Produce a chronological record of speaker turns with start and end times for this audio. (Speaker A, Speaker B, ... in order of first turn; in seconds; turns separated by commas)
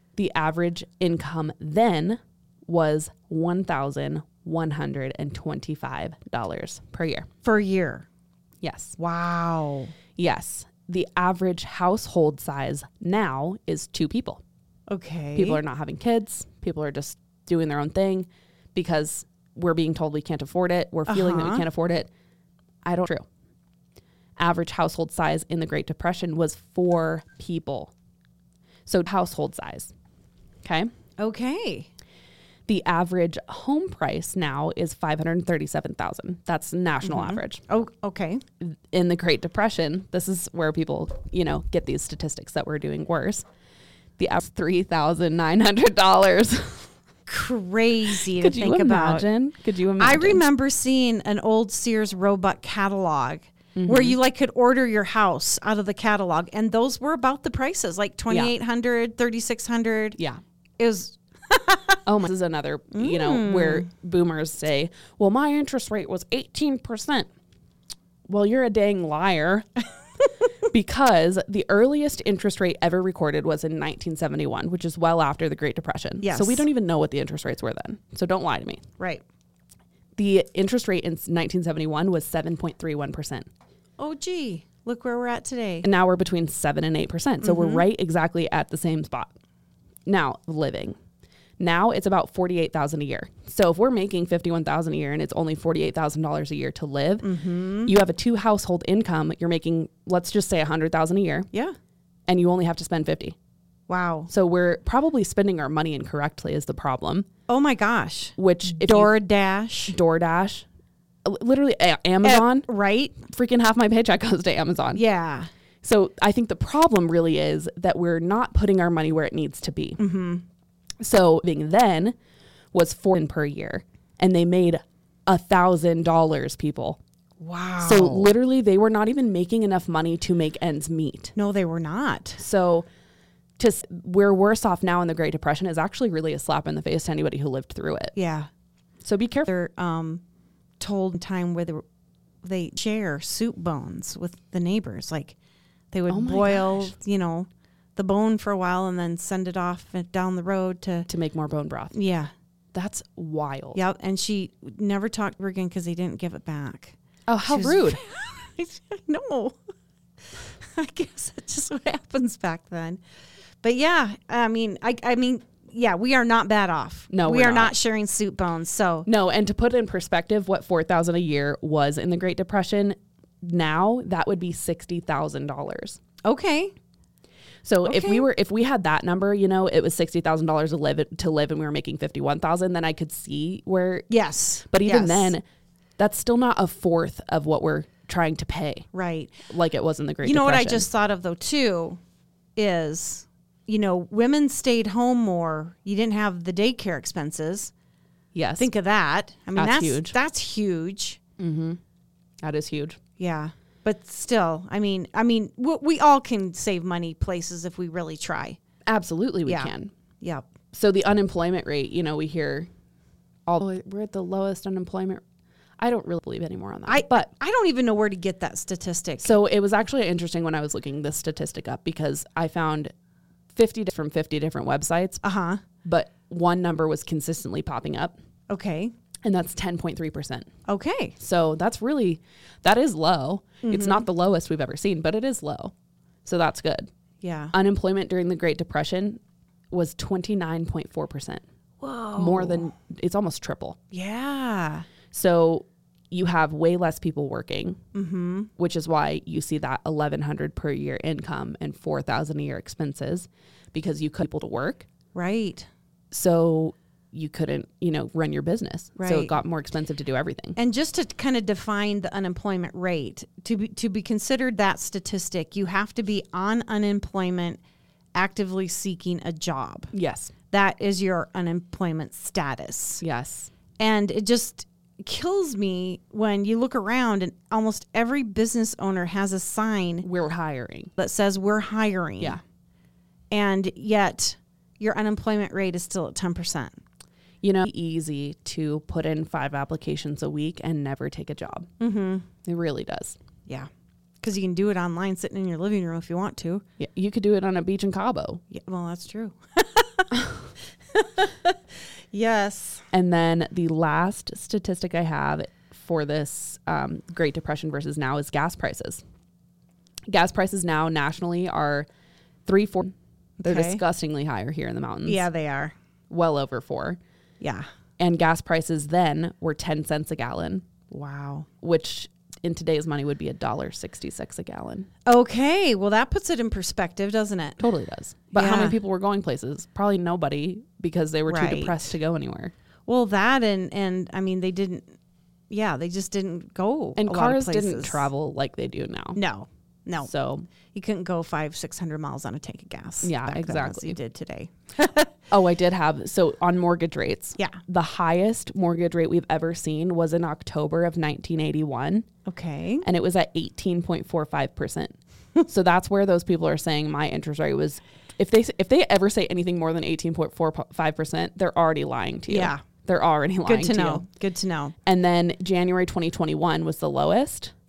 Speaker A: 0.1-7.3, Speaker B: 7.4-8.1, Speaker A: 8.6-9.0, Speaker B: 9.0-9.9, Speaker A: 10.2-14.4, Speaker B: 14.9-15.6, Speaker A: 15.3-22.1, Speaker B: 21.1-21.6, Speaker A: 22.8-23.2, Speaker A: 24.4-27.9, Speaker A: 28.9-29.9, Speaker A: 30.6-30.9, Speaker B: 31.2-31.9, Speaker A: 32.7-37.6, Speaker B: 37.0-38.4, Speaker A: 38.6-43.4, Speaker A: 44.2-46.9, Speaker B: 47.3-49.3, Speaker A: 48.1-50.4, Speaker B: 50.0-60.2, Speaker A: 53.8-54.2, Speaker B: 60.8-62.0, Speaker A: 62.0-67.3, Speaker B: 62.9-63.9, Speaker A: 68.3-69.8, Speaker A: 70.7-78.8, Speaker B: 76.2-76.7, Speaker A: 80.2-83.5, Speaker B: 84.0-85.9, Speaker A: 85.8-89.3, Speaker B: 87.4-87.8, Speaker A: 90.0-91.0, Speaker A: 91.6-97.3, Speaker B: 97.2-97.9, Speaker A: 97.8-101.5, Speaker A: 102.3-103.3, Speaker B: 103.9-104.3, Speaker A: 104.3-107.3, Speaker B: 107.5-109.9, Speaker A: 108.4-109.1, Speaker A: 109.9-110.7, Speaker A: 111.2-112.7, Speaker B: 112.2-113.2, Speaker A: 113.2-115.0, Speaker B: 114.9-115.5, Speaker A: 115.8-120.0, Speaker B: 120.0-120.4, Speaker A: 121.0-122.1, Speaker A: 122.7-127.0, Speaker B: 127.4-128.3, Speaker A: 127.8-131.3, Speaker B: 131.3-132.4, Speaker A: 132.4-132.9, Speaker A: 133.6-138.1, Speaker B: 138.1-138.5, Speaker A: 139.0-139.5, Speaker B: 139.5-140.2, Speaker B: 140.8-141.8, Speaker B: 142.4-145.4, Speaker B: 145.9-151.1, Speaker A: 146.1-147.0, Speaker A: 151.1-151.9, Speaker B: 151.9-152.3, Speaker A: 152.7-153.8, Speaker B: 153.7-156.9, Speaker A: 157.3-158.0, Speaker B: 157.5-159.6, Speaker B: 160.3-163.0, Speaker B: 163.6-169.1, Speaker A: 167.1-167.7, Speaker A: 169.0-176.0, Speaker B: 176.2-176.7, Speaker A: 177.6-184.1, Speaker B: 177.8-178.2, Speaker B: 184.1-185.3, Speaker A: 184.7-185.4, Speaker A: 186.0-188.9, Speaker B: 188.9-189.3, Speaker A: 189.5-190.9, Speaker B: 190.2-192.0, Speaker B: 192.6-197.7, Speaker A: 198.3-198.7, Speaker B: 198.6-201.2, Speaker A: 199.5-200.2, Speaker A: 201.4-201.8, Speaker A: 202.4-203.0, Speaker B: 203.2-208.6, Speaker A: 208.9-209.9, Speaker B: 209.4-210.5, Speaker A: 210.7-212.7, Speaker A: 213.5-215.2, Speaker A: 215.8-217.3, Speaker B: 216.9-219.3, Speaker A: 219.2-222.9, Speaker A: 223.5-225.2, Speaker B: 225.2-225.6, Speaker A: 225.8-228.2, Speaker B: 228.5-228.9, Speaker A: 229.2-230.5, Speaker B: 230.7-231.2, Speaker A: 231.2-235.7, Speaker B: 233.6-234.1, Speaker A: 236.2-236.9, Speaker B: 237.2-237.5, Speaker A: 237.5-239.2, Speaker A: 239.7-241.4, Speaker B: 241.8-242.7, Speaker A: 242.1-243.8, Speaker B: 243.9-244.9, Speaker A: 245.1-247.8, Speaker B: 247.9-248.5, Speaker A: 248.6-254.9, Speaker B: 255.1-255.7, Speaker A: 256.1-260.6, Speaker B: 259.0-259.4, Speaker B: 260.6-267.6, Speaker B: 268.1-269.9, Speaker A: 269.9-270.3, Speaker B: 270.5-273.0, Speaker A: 273.0-273.5, Speaker B: 273.8-280.1, Speaker A: 280.0-280.9, Speaker B: 281.0-282.4, Speaker B: 283.3-286.8, Speaker A: 287.4-291.7, Speaker B: 291.8-292.3, Speaker A: 292.4-293.2, Speaker B: 294.2-296.6, Speaker A: 296.8-298.4, Speaker B: 298.5-300.1, Speaker B: 300.9-302.9, Speaker A: 302.9-309.0, Speaker A: 310.1-311.9, Speaker A: 312.4-315.2, Speaker B: 313.4-313.8, Speaker B: 315.0-315.7, Speaker A: 316.1-317.0, Speaker B: 317.4-317.7, Speaker A: 318.0-320.6, Speaker B: 320.9-321.5, Speaker A: 321.6-324.9, Speaker B: 325.1-327.6, Speaker A: 327.6-332.5, Speaker B: 328.3-328.8, Speaker B: 331.3-331.8, Speaker B: 332.9-334.9, Speaker B: 335.5-338.1, Speaker A: 337.0-339.2, Speaker B: 339.1-340.1, Speaker A: 340.0-340.5, Speaker B: 340.7-345.1, Speaker A: 343.0-344.0, Speaker A: 345.3-352.1, Speaker B: 352.2-352.8, Speaker A: 352.8-354.9, Speaker A: 355.5-364.0, Speaker B: 362.3-362.6, Speaker B: 363.4-364.7, Speaker A: 364.8-367.5